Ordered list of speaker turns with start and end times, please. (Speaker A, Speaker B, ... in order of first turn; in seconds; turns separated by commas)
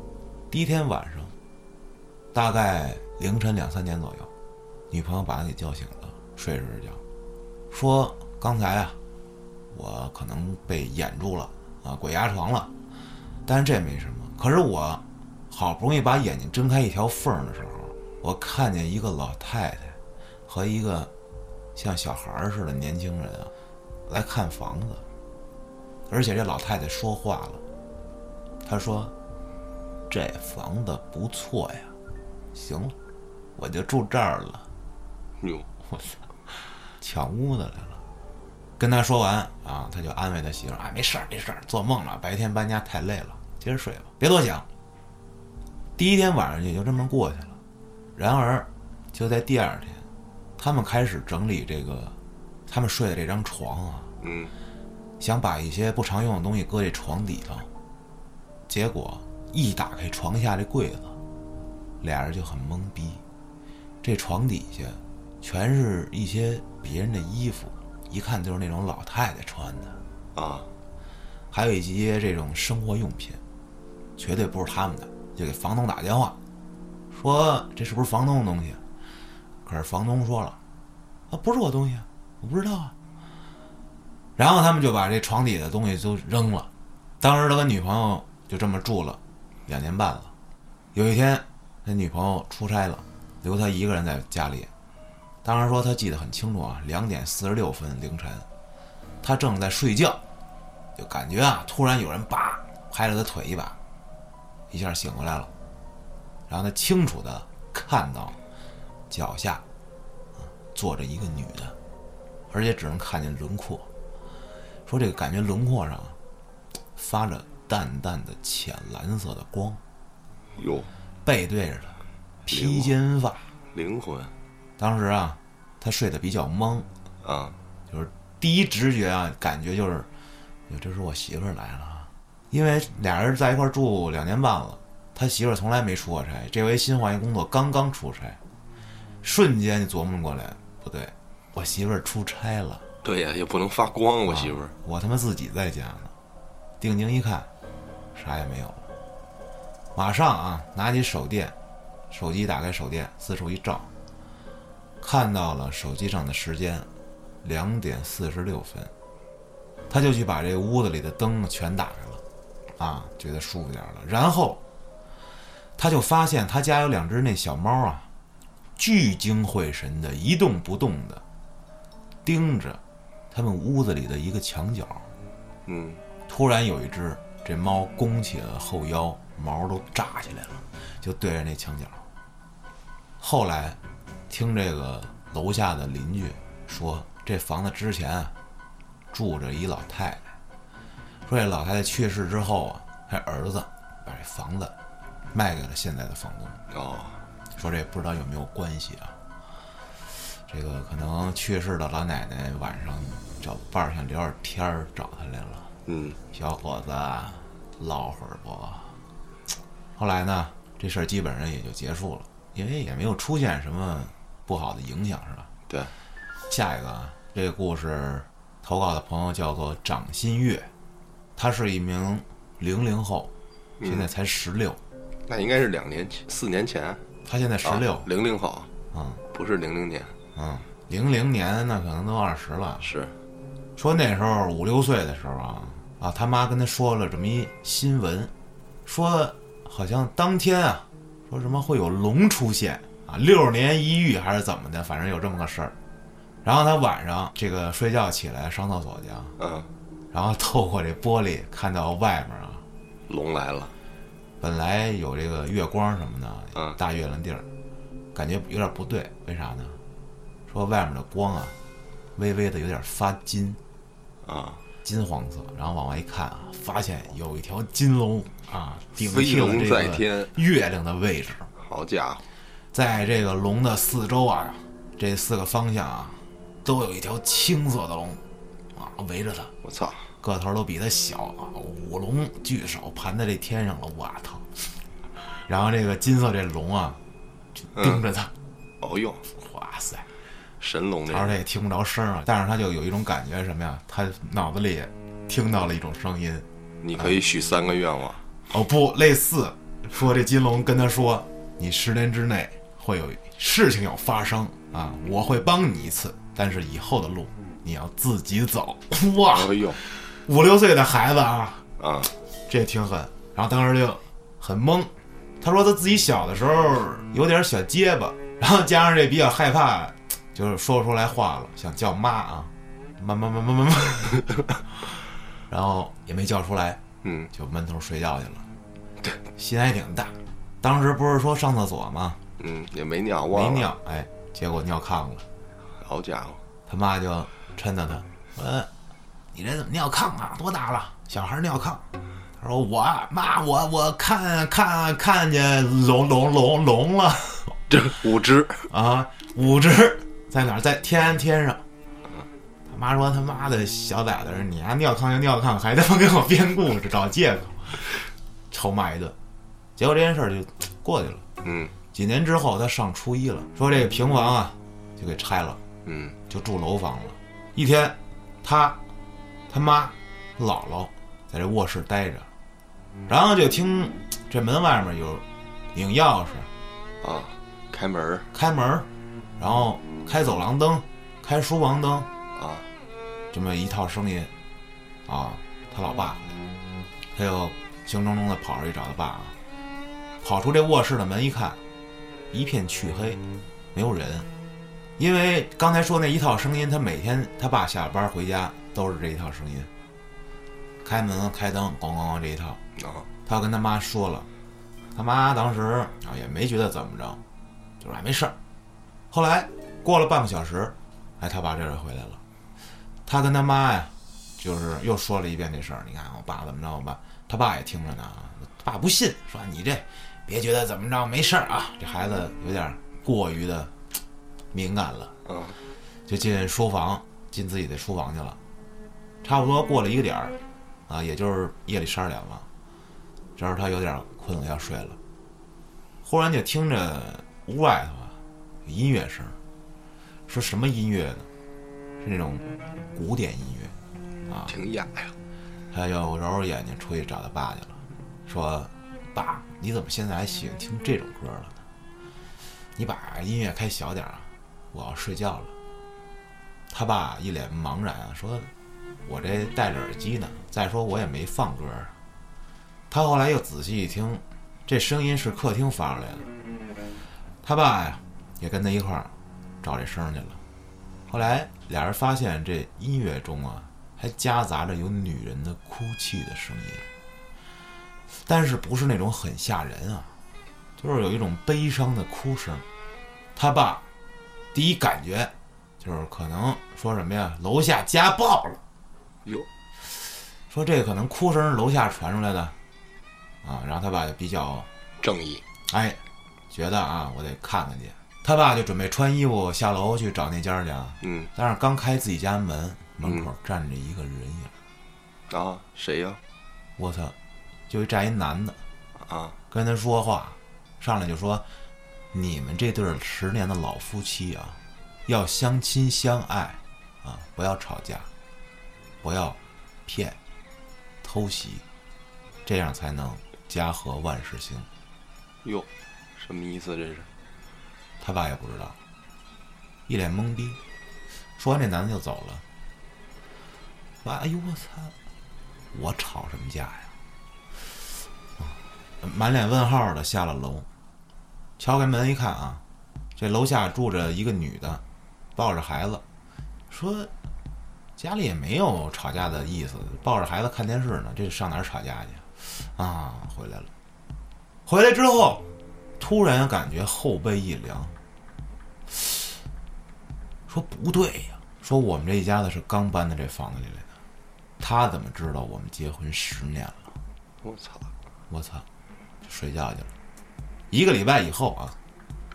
Speaker A: 0.5-1.3, Speaker A: 2.3-4.3, Speaker A: 4.9-7.0, Speaker A: 7.7-9.0, Speaker A: 9.7-12.7, Speaker A: 13.4-21.1, Speaker A: 21.8-23.5, Speaker A: 24.1-25.0, Speaker A: 26.1-27.6, Speaker A: 28.6-29.1, Speaker A: 30.1-31.9, Speaker A: 32.5-33.0, Speaker A: 33.6-34.7, Speaker B: 35.4-35.7, Speaker A: 35.9-36.2, Speaker A: 37.0-38.0, Speaker A: 38.8-44.7, Speaker A: 46.0-47.6, Speaker A: 48.2-50.0, Speaker A: 50.6-52.1, Speaker A: 52.7-54.1, Speaker B: 54.2-54.5, Speaker A: 55.2-57.7, Speaker A: 58.7-61.2, Speaker A: 62.0-63.2, Speaker A: 64.0-70.0, Speaker B: 70.3-70.7, Speaker A: 71.5-73.4, Speaker A: 74.2-76.4, Speaker A: 77.1-78.8, Speaker A: 79.7-80.6, Speaker A: 81.3-82.9, Speaker A: 84.4-86.7, Speaker A: 87.2-90.3, Speaker A: 90.9-94.7, Speaker A: 95.4-98.5, Speaker A: 99.2-100.2, Speaker A: 101.0-103.8, Speaker A: 104.7-105.5, Speaker A: 106.5-108.4, Speaker A: 109.1-109.6, Speaker A: 110.4-111.8, Speaker A: 112.5-113.9, Speaker A: 114.9-116.2, Speaker A: 117.0-119.8, Speaker B: 120.6-120.9, Speaker A: 121.2-123.5, Speaker B: 122.5-122.9, Speaker B: 123.7-124.3, Speaker A: 124.8-126.9, Speaker B: 127.2-127.6, Speaker A: 127.9-130.1, Speaker A: 130.7-138.4, Speaker A: 139.2-142.8, Speaker B: 143.0-144.7, Speaker A: 144.3-146.1, Speaker A: 146.8-147.5, Speaker A: 148.2-148.9, Speaker A: 149.9-151.6, Speaker A: 152.1-153.9, Speaker A: 155.0-156.9, Speaker A: 157.4-158.9, Speaker A: 159.9-162.2, Speaker A: 162.8-164.6, Speaker A: 165.8-168.1, Speaker A: 168.8-171.2, Speaker A: 172.2-172.8, Speaker A: 173.3-175.1, Speaker B: 175.7-176.0, Speaker A: 176.3-182.0, Speaker A: 183.2-183.8, Speaker A: 184.3-188.3, Speaker A: 189.1-190.2, Speaker A: 191.3-194.8, Speaker A: 195.3-196.6, Speaker B: 196.7-197.2, Speaker A: 197.6-199.2, Speaker A: 200.5-205.7, Speaker B: 205.9-206.2, Speaker A: 206.3-208.9, Speaker A: 210.0-215.5, Speaker A: 216.5-220.7, Speaker A: 221.4-223.3, Speaker B: 223.8-224.1, Speaker A: 223.8-224.8, Speaker B: 225.3-227.0, Speaker A: 227.2-228.1, Speaker B: 227.6-228.7, Speaker A: 228.9-229.2, Speaker B: 229.3-230.2, Speaker A: 230.3-232.9, Speaker B: 232.8-233.1, Speaker A: 233.8-238.3, Speaker A: 238.8-245.8, Speaker A: 246.4-249.3, Speaker B: 249.4-249.7, Speaker A: 250.1-252.6, Speaker B: 253.1-253.7, Speaker A: 254.4-257.5, Speaker A: 258.1-259.8, Speaker A: 260.5-261.6, Speaker A: 262.1-263.6, Speaker B: 264.2-264.6, Speaker A: 264.8-271.5, Speaker B: 269.0-270.3, Speaker B: 271.6-272.2, Speaker A: 272.7-278.2, Speaker A: 278.8-279.5, Speaker B: 279.6-280.1, Speaker A: 280.2-284.5, Speaker A: 285.2-287.0, Speaker A: 287.6-288.3, Speaker B: 288.8-289.3, Speaker A: 289.4-290.1, Speaker B: 290.6-291.4, Speaker A: 291.1-297.2, Speaker B: 296.8-298.2, Speaker A: 298.5-311.6, Speaker B: 309.3-309.8, Speaker B: 311.8-312.1, Speaker A: 312.5-324.9, Speaker A: 325.5-326.8, Speaker B: 327.0-327.3, Speaker A: 327.3-328.5, Speaker A: 329.4-332.2, Speaker B: 332.4-333.7, Speaker A: 333.3-335.2, Speaker B: 335.8-336.4, Speaker A: 336.7-338.7, Speaker A: 339.3-341.9, Speaker A: 342.4-347.6, Speaker B: 347.7-348.7, Speaker A: 348.7-351.6, Speaker A: 352.7-358.0, Speaker A: 358.5-359.2, Speaker A: 359.8-361.2, Speaker B: 361.4-361.7, Speaker A: 361.9-365.6, Speaker B: 365.9-366.2, Speaker A: 366.3-368.8, Speaker A: 369.5-372.3, Speaker A: 373.1-376.5, Speaker B: 377.0-378.3, Speaker A: 378.3-382.1, Speaker B: 382.4-382.7, Speaker A: 383.3-384.3, Speaker A: 385.1-386.4, Speaker A: 387.1-389.4, Speaker A: 390.2-391.6, Speaker A: 392.3-393.2, Speaker A: 393.7-394.3, Speaker A: 395.0-399.7, Speaker A: 400.8-402.6, Speaker B: 402.8-403.1, Speaker A: 403.3-404.3, Speaker A: 404.9-407.2, Speaker A: 407.8-408.4, Speaker A: 409.1-412.2, Speaker A: 413.1-424.0, Speaker A: 424.5-425.1, Speaker B: 425.3-425.6, Speaker A: 426.1-428.4, Speaker A: 429.2-430.4, Speaker A: 430.9-432.5, Speaker A: 433.4-435.0, Speaker A: 436.0-439.4, Speaker A: 440.3-441.3, Speaker A: 442.0-443.8, Speaker A: 444.3-444.6, Speaker B: 444.5-445.1, Speaker A: 445.7-451.6, Speaker A: 452.8-455.5, Speaker A: 456.7-458.5, Speaker A: 459.1-461.9, Speaker A: 462.9-466.3, Speaker A: 467.4-470.4, Speaker A: 471.1-476.9, Speaker A: 478.2-480.1, Speaker A: 480.8-482.6, Speaker A: 483.4-483.8, Speaker A: 484.5-488.6, Speaker A: 490.5-492.6, Speaker A: 493.4-494.7, Speaker B: 495.0-495.4, Speaker A: 495.7-496.0, Speaker A: 496.5-504.5, Speaker B: 501.0-501.3, Speaker B: 503.0-503.3, Speaker B: 505.3-506.2, Speaker A: 506.8-507.1, Speaker A: 507.7-508.6, Speaker B: 509.0-509.4, Speaker A: 509.5-511.5, Speaker A: 512.1-518.1, Speaker A: 519.0-520.2, Speaker A: 521.0-521.6, Speaker A: 522.5-524.7, Speaker B: 525.4-527.1, Speaker A: 528.0-528.8, Speaker A: 529.9-530.6, Speaker A: 531.4-532.4, Speaker A: 534.0-534.9, Speaker A: 535.7-536.9, Speaker A: 538.4-540.7, Speaker A: 541.6-542.6, Speaker A: 543.2-544.8, Speaker A: 545.4-546.0, Speaker A: 546.7-547.1, Speaker A: 548.0-553.7, Speaker A: 554.7-555.4, Speaker A: 556.0-558.0, Speaker A: 558.9-559.2, Speaker A: 560.5-563.9, Speaker A: 564.6-566.9, Speaker B: 567.4-567.9, Speaker A: 568.3-568.6, Speaker A: 569.2-569.9, Speaker A: 570.7-571.8